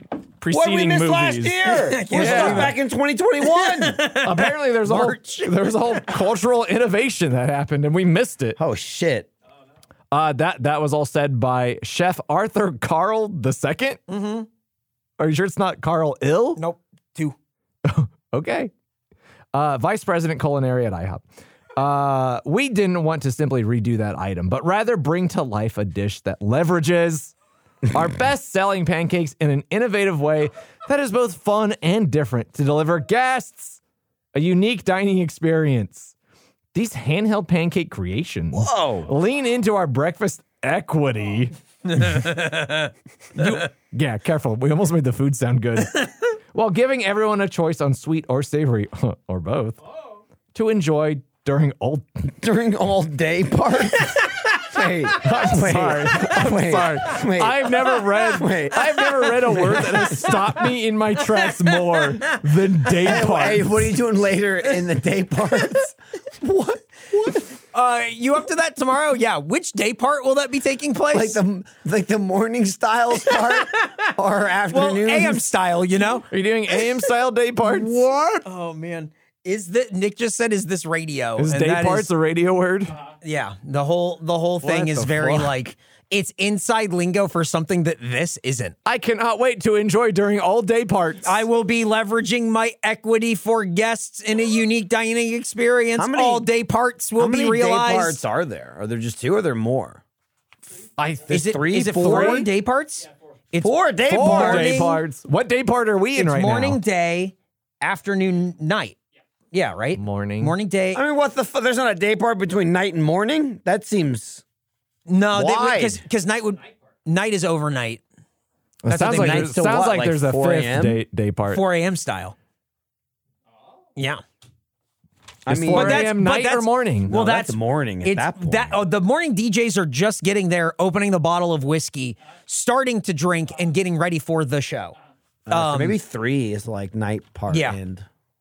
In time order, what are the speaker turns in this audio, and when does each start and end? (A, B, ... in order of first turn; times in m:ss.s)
0:00.4-0:01.6 A
0:00.5-0:04.0 B
0:01.7-0:02.8 C
0:02.1-0:02.8 A
0:03.4-0:06.2 C
0:04.2-0:08.6 A
0:08.6-0:09.3 B
0:10.1-0:14.0 A
0:14.1-0:14.5 C
0:15.2-0:16.6 A
0:16.6-0:17.4 C
0:17.8-0:18.7 A
0:19.5-0:21.2 A
0:21.8-0:27.3 A
0:27.9-0:33.8 A
0:34.3-0:36.1 A
0:36.7-0:41.5 A
0:38.5-0:39.1 B
0:41.9-0:43.7 C
0:43.4-0:49.8 A
0:50.5-0:52.2 A
0:52.4-1:00.3 B
0:54.0-0:54.6 C
0:55.2-1:03.9 A
0:58.8-1:00.6 C
1:01.2-1:03.2 C
1:03.0-1:07.4 B
1:07.7-1:11.4 C
1:11.1-1:15.4 B
1:13.2-1:14.1 C
1:14.7-1:17.1 C
1:16.3-1:18.4 A
1:17.6-1:22.1 C
1:21.4-1:23.0 A
1:23.2-1:28.7 C
1:24.6-1:25.5 A
1:28.8-1:31.4 A
1:31.2-1:38.2 C
1:36.0-1:36.5 B
1:37.2-1:40.0 B
1:41.0-1:41.4 A
1:41.3-1:42.5 B
1:41.3-1:45.0 C
1:42.0-1:42.5 A
1:43.6-1:44.8 B
1:44.1-1:46.8 A
1:46.1-1:49.0 C
1:49.5-1:51.0 C
1:49.9-1:50.5 A
1:50.9-1:54.4 B
1:55.1-1:58.0 C
1:55.3-1:56.0 B
1:58.8-2:01.6 A
1:58.9-1:59.5 C
1:59.0-2:01.0 B
2:01.5-2:02.3 C
2:04.0-2:04.2 C
2:05.4-2:06.1 B
2:05.5-2:07.1 A
2:05.7-2:14.9 C
2:07.1-2:08.8 B
2:15.5-2:18.0 B
2:15.5-2:16.0 C
2:17.5-2:17.8 C